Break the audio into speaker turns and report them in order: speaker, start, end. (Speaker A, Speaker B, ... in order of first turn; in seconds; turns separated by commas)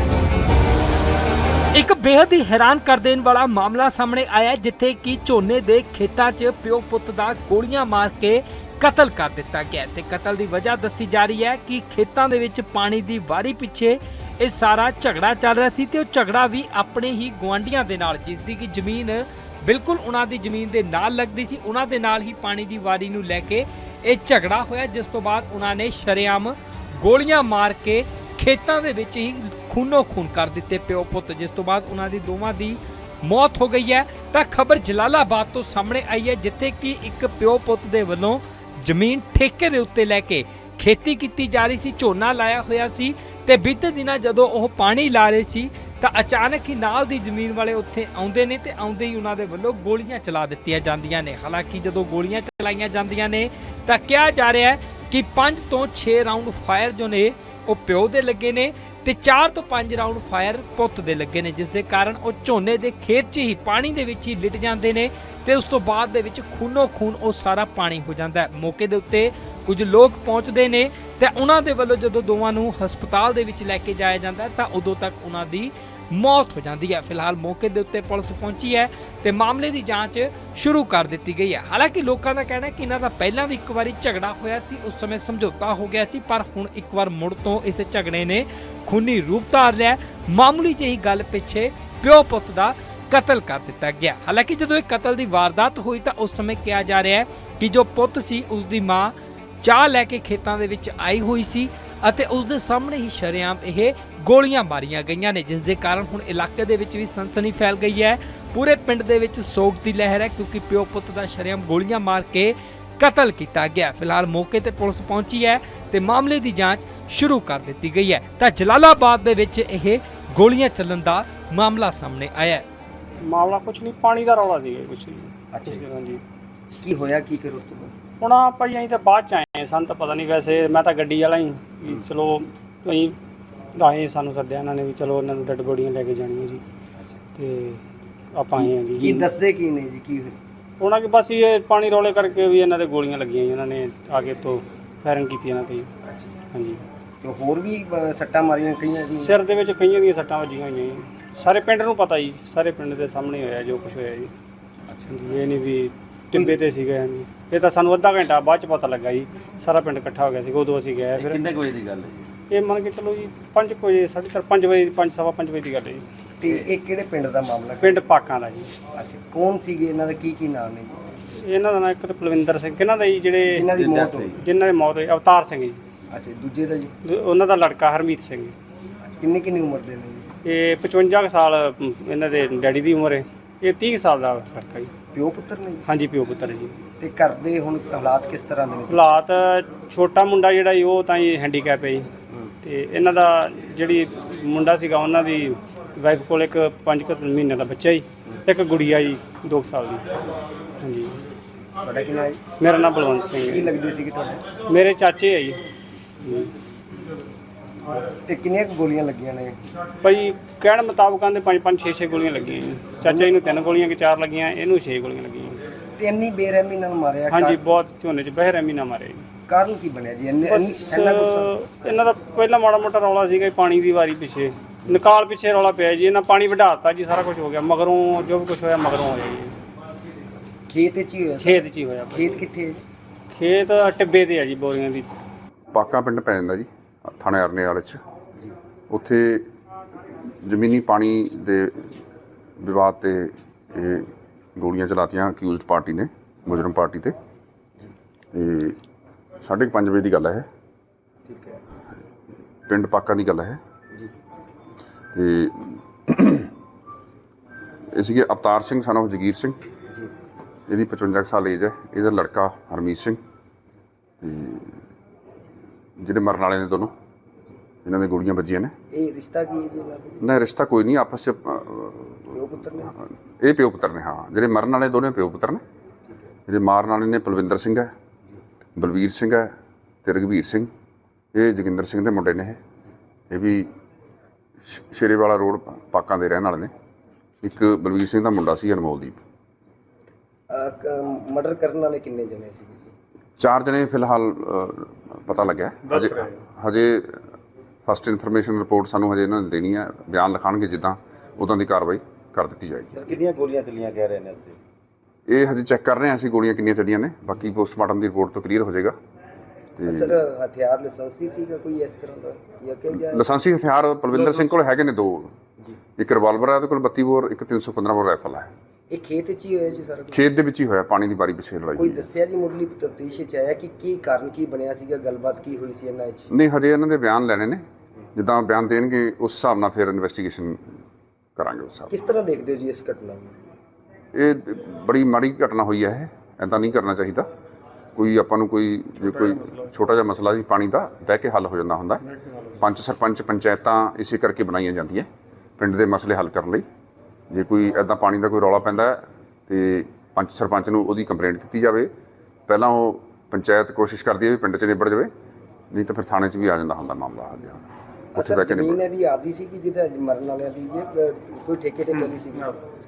Speaker A: 1.7-122.7, Speaker B: 123.3-126.2, Speaker C: 125.5-125.9, Speaker C: 126.7-127.9, Speaker B: 128.2-133.1, Speaker B: 133.8-136.6, Speaker B: 137.4-137.8, Speaker B: 138.4-139.2, Speaker C: 138.6-140.4, Speaker B: 140.8-145.9, Speaker C: 146.1-146.4, Speaker B: 146.5-146.8, Speaker C: 147.2-149.4, Speaker B: 149.2-154.3, Speaker B: 155.1-161.4, Speaker D: 161.2-162.3, Speaker B: 162.5-166.0, Speaker C: 166.4-168.0, Speaker B: 167.8-168.7, Speaker C: 168.9-171.0, Speaker B: 171.5-173.6, Speaker C: 173.5-174.4, Speaker D: 173.7-174.4, Speaker B: 174.4-175.8, Speaker C: 176.1-176.9, Speaker B: 177.1-178.5, Speaker C: 179.1-180.3, Speaker B: 180.5-184.9, Speaker C: 185.1-185.8, Speaker B: 185.9-186.8, Speaker C: 187.0-189.2, Speaker B: 188.9-192.1, Speaker B: 192.6-200.1, Speaker B: 200.8-201.1, Speaker C: 201.8-202.4, Speaker B: 202.6-203.7, Speaker C: 203.4-204.4, Speaker B: 204.7-205.6, Speaker C: 208.2-209.6, Speaker B: 210.0-215.6, Speaker C: 216.0-217.6, Speaker B: 217.3-219.2, Speaker C: 219.5-221.5, Speaker B: 220.5-229.5, Speaker C: 230.7-232.8, Speaker B: 231.4-232.3, Speaker B: 233.3-235.1, Speaker E: 235.7-238.0, Speaker E: 238.9-239.5, Speaker E: 240.4-241.9, Speaker E: 242.6-247.2, Speaker E: 248.3-248.8, Speaker E: 249.4-250.5, Speaker C: 251.3-251.6, Speaker E: 252.7-253.6, Speaker E: 255.1-256.5, Speaker E: 257.9-259.6, Speaker E: 260.7-263.2, Speaker E: 264.2-264.8, Speaker E: 266.0-266.9, Speaker E: 267.9-268.7, Speaker C: 268.9-270.2, Speaker E: 270.2-272.3, Speaker C: 272.3-272.9, Speaker E: 273.4-275.6, Speaker E: 276.5-277.9, Speaker E: 278.8-279.5, Speaker E: 280.0-280.7, Speaker E: 281.3-282.6, Speaker E: 283.3-283.7, Speaker E: 284.7-286.7, Speaker E: 287.4-289.2, Speaker C: 290.5-292.9, Speaker E: 293.4-297.2, Speaker E: 297.9-303.1, Speaker D: 303.0-304.6, Speaker E: 305.3-308.9, Speaker E: 309.8-310.2, Speaker C: 309.9-313.3, Speaker E: 312.9-315.3, Speaker E: 316.0-318.5, Speaker C: 318.9-320.2, Speaker E: 320.1-322.1, Speaker C: 321.8-326.3, Speaker E: 326.3-327.6, Speaker E: 328.1-330.6, Speaker E: 331.4-332.0, Speaker C: 331.9-333.4, Speaker E: 334.1-337.3, Speaker E: 338.0-342.1, Speaker E: 342.6-345.1, Speaker E: 345.6-346.6, Speaker E: 347.3-351.9, Speaker E: 352.5-355.1, Speaker E: 355.7-358.8, Speaker C: 358.1-362.6